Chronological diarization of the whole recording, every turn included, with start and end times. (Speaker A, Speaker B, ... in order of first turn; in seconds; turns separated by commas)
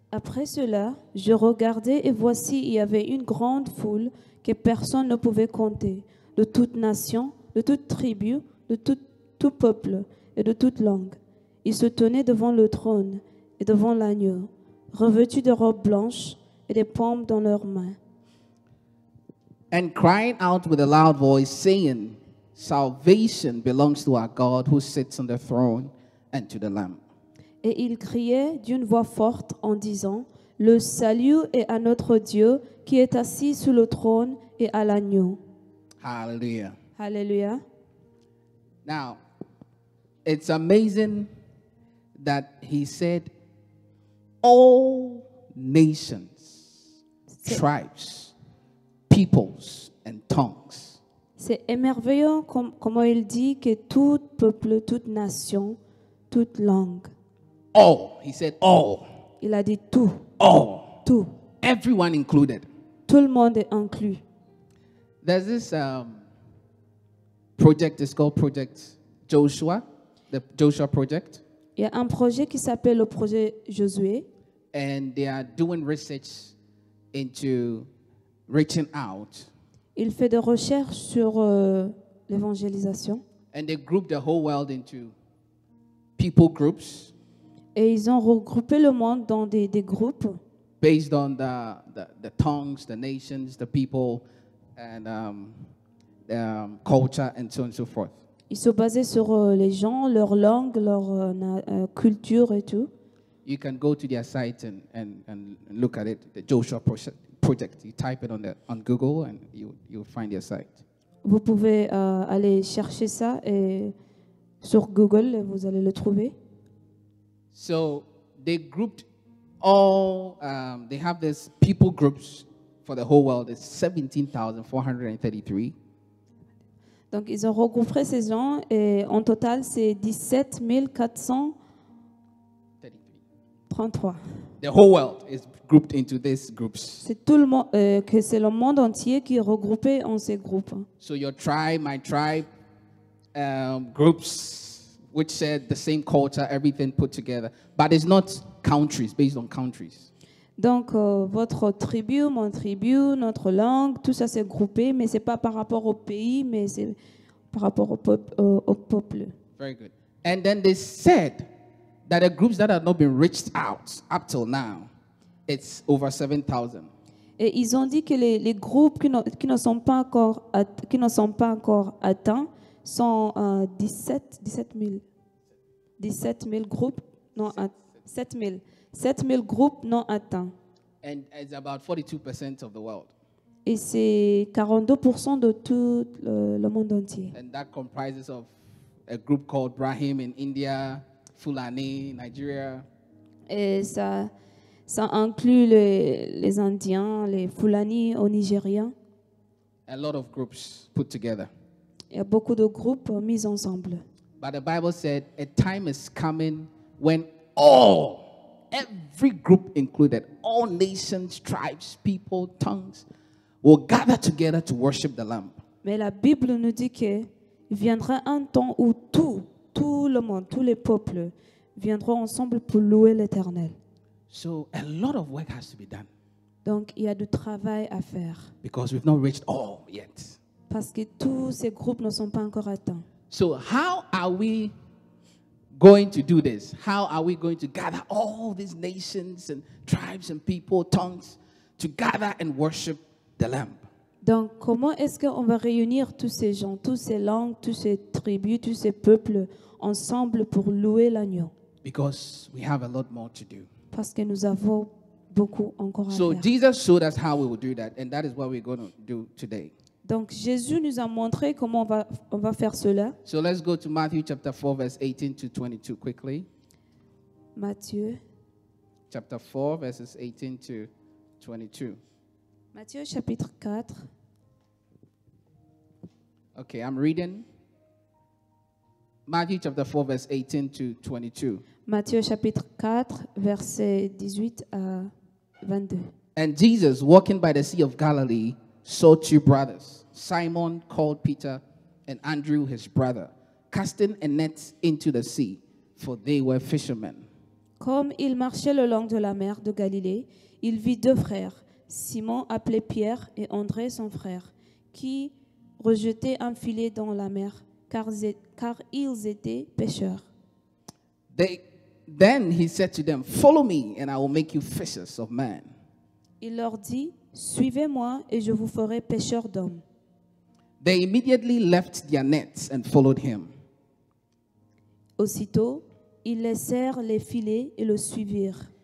Speaker A: 0.1-18.0, Speaker B: 19.7-27.0, Speaker A: 27.6-35.4, Speaker B: 36.0-36.8, Speaker A: 37.0-37.6, Speaker B: 38.9-39.2, Speaker B: 40.2-41.3, Speaker B: 42.2-43.3, Speaker B: 44.4-46.8, Speaker A: 47.3-47.6, Speaker B: 47.5-48.3, Speaker B: 49.1-51.0, Speaker A: 51.4-55.8, Speaker A: 56.3-57.1, Speaker B: 57.7-59.0, Speaker A: 59.4-60.3, Speaker B: 60.4-61.0, Speaker A: 61.0-61.3, Speaker B: 61.6-62.7, Speaker A: 63.1-64.2, Speaker B: 65.2-66.3, Speaker B: 67.6-71.4, Speaker A: 71.8-74.3, Speaker B: 74.7-76.5, Speaker B: 77.1-77.9, Speaker B: 78.5-79.5, Speaker A: 80.0-83.2, Speaker B: 83.5-85.2, Speaker B: 86.2-87.1, Speaker A: 87.8-90.4, Speaker B: 90.8-94.2, Speaker B: 94.8-95.6, Speaker B: 96.3-98.2, Speaker A: 98.5-102.9, Speaker B: 103.5-110.8, Speaker A: 111.2-113.9, Speaker A: 114.6-116.3, Speaker B: 117.5-119.1, Speaker B: 119.6-125.8, Speaker A: 127.1-131.6, Speaker B: 132.8-133.2, Speaker A: 133.7-134.2, Speaker B: 134.6-137.1, Speaker A: 137.0-140.9, Speaker B: 141.0-142.5, Speaker B: 143.3-150.1, Speaker A: 150.6-157.0, Speaker A: 157.5-159.3, Speaker B: 159.6-161.5, Speaker B: 162.1-164.9, Speaker B: 165.5-166.9, Speaker A: 167.4-175.0, Speaker A: 176.0-180.5, Speaker B: 181.0-183.1, Speaker A: 183.7-187.3, Speaker B: 187.3-188.5, Speaker B: 189.1-192.9, Speaker A: 193.5-194.3, Speaker A: 194.9-198.9, Speaker B: 199.9-201.5, Speaker A: 202.1-204.0, Speaker B: 204.4-213.1, Speaker B: 213.6-215.6, Speaker A: 215.8-223.8, Speaker B: 224.3-226.1, Speaker A: 226.7-228.5, Speaker B: 228.6-230.4, Speaker A: 230.7-233.1, Speaker B: 233.3-234.7, Speaker B: 235.8-243.8, Speaker A: 244.2-251.5, Speaker B: 251.8-253.7, Speaker A: 253.9-256.5, Speaker B: 256.1-259.7, Speaker A: 260.1-263.2, Speaker B: 263.2-266.5, Speaker A: 267.6-268.2, Speaker B: 269.1-272.0, Speaker A: 272.7-274.0, Speaker B: 276.6-277.5, Speaker B: 279.3-281.6, Speaker A: 281.9-285.1, Speaker A: 285.6-286.1, Speaker B: 286.4-297.2, Speaker A: 297.8-310.3, Speaker B: 311.3-315.7, Speaker A: 316.4-319.8, Speaker B: 320.8-323.5, Speaker A: 325.2-328.7